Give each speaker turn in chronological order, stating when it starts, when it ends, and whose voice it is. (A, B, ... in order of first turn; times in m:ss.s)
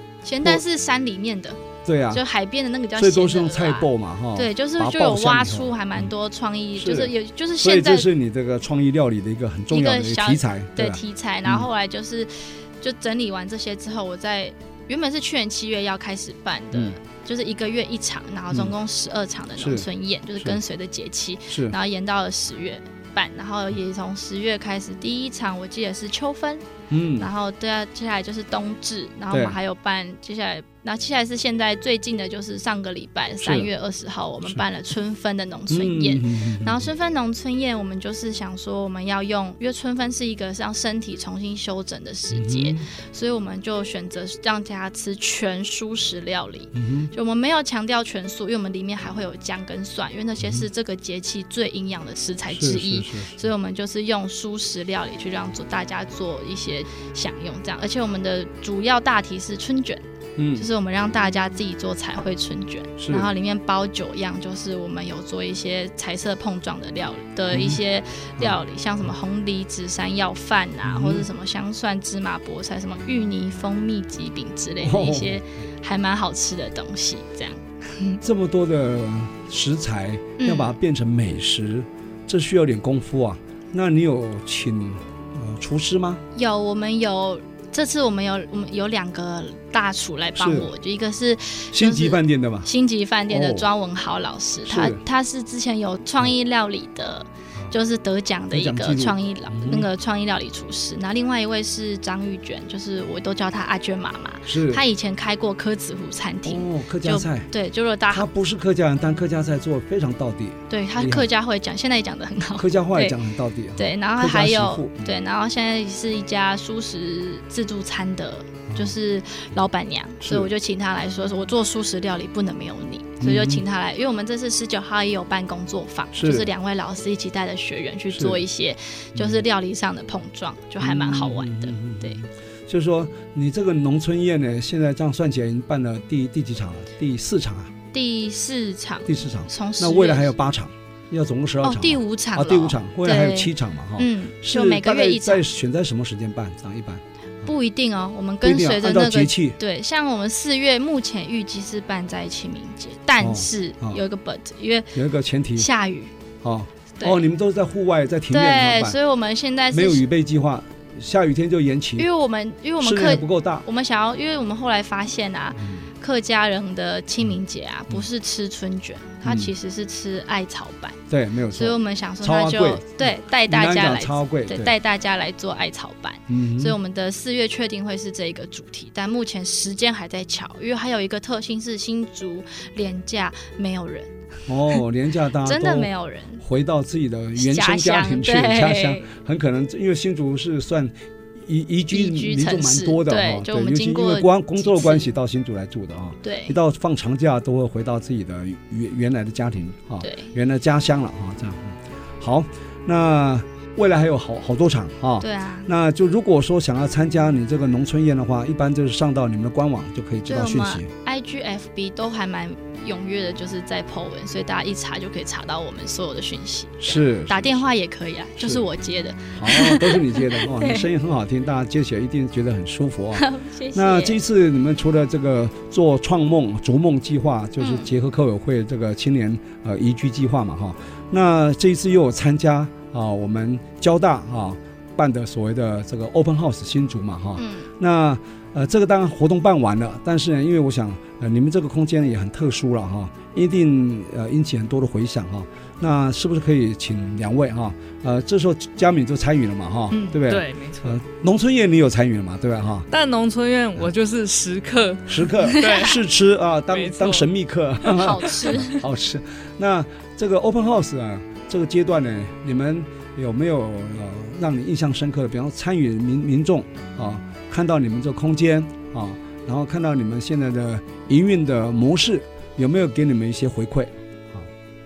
0:00.2-0:01.6 A
0:01.9-0:02.2 B
0:02.1-0:08.1 A
0:03.0-0:06.1 B
0:06.8-0:11.7 B
0:09.7-0:26.6 A
0:19.6-0:19.9 B
0:21.5-0:21.8 B
0:26.9-0:27.3 B
0:27.2-1:00.0 A
0:29.3-0:29.6 B
0:33.4-0:33.7 B
0:35.7-0:36.9 B
0:42.3-0:42.9 B
0:46.7-0:47.1 B
0:52.5-0:53.4 B
1:00.4-1:00.7 B
1:00.6-1:18.2 A
1:03.0-1:03.3 B
1:07.5-1:07.8 B
1:10.8-1:11.2 B
1:14.8-1:15.4 B
1:18.2-1:26.2 B
1:20.4-1:20.8 A
1:26.4-1:48.3 A
1:30.4-1:30.7 B
1:31.7-1:32.7 B
1:33.3-1:33.7 B
1:34.7-1:35.0 B
1:38.5-1:39.9 B
1:44.5-1:44.8 B
1:46.4-1:47.5 B
1:48.1-1:51.3 B
1:50.7-1:53.2 A
1:52.6-1:55.1 B
1:53.8-2:12.2 A
2:00.2-2:00.5 B
2:03.2-2:03.6 B
2:06.2-2:06.5 B
2:08.1-2:08.4 B
2:10.8-2:17.8 B
2:17.9-2:20.3 A
2:19.1-2:27.5 B
2:21.6-2:25.5 A
2:27.4-2:35.0 A
2:28.4-2:29.6 B
2:33.2-2:34.0 B
2:35.0-2:35.7 B
2:35.6-2:36.1 A
2:36.4-2:39.0 B
2:37.0-2:37.3 A
2:38.3-2:40.0 A
2:39.7-2:42.1 B
2:42.0-2:51.0 A
2:42.8-2:43.6 B
2:45.6-2:45.9 B
2:49.2-2:49.5 B
2:51.1-2:54.7 B
2:51.5-3:04.1 A
2:56.3-2:56.8 B
3:04.5-3:30.9 B
3:05.4-3:06.4 A
3:07.4-3:09.1 A
3:11.9-3:15.1 A
3:16.2-3:16.6 A
3:20.0-3:20.3 A
3:25.2-3:25.7 A
3:30.3-3:40.9 A
3:36.8-3:37.7 B
3:38.4-3:38.6 B
3:39.4-4:12.9 B
3:43.2-3:44.2 A
3:47.6-3:47.9 A
3:57.4-3:57.7 A
4:09.9-4:11.0 C
4:12.9-4:16.0 C
4:15.1-4:34.5 B
4:16.7-4:17.3 C
4:17.9-4:18.8 A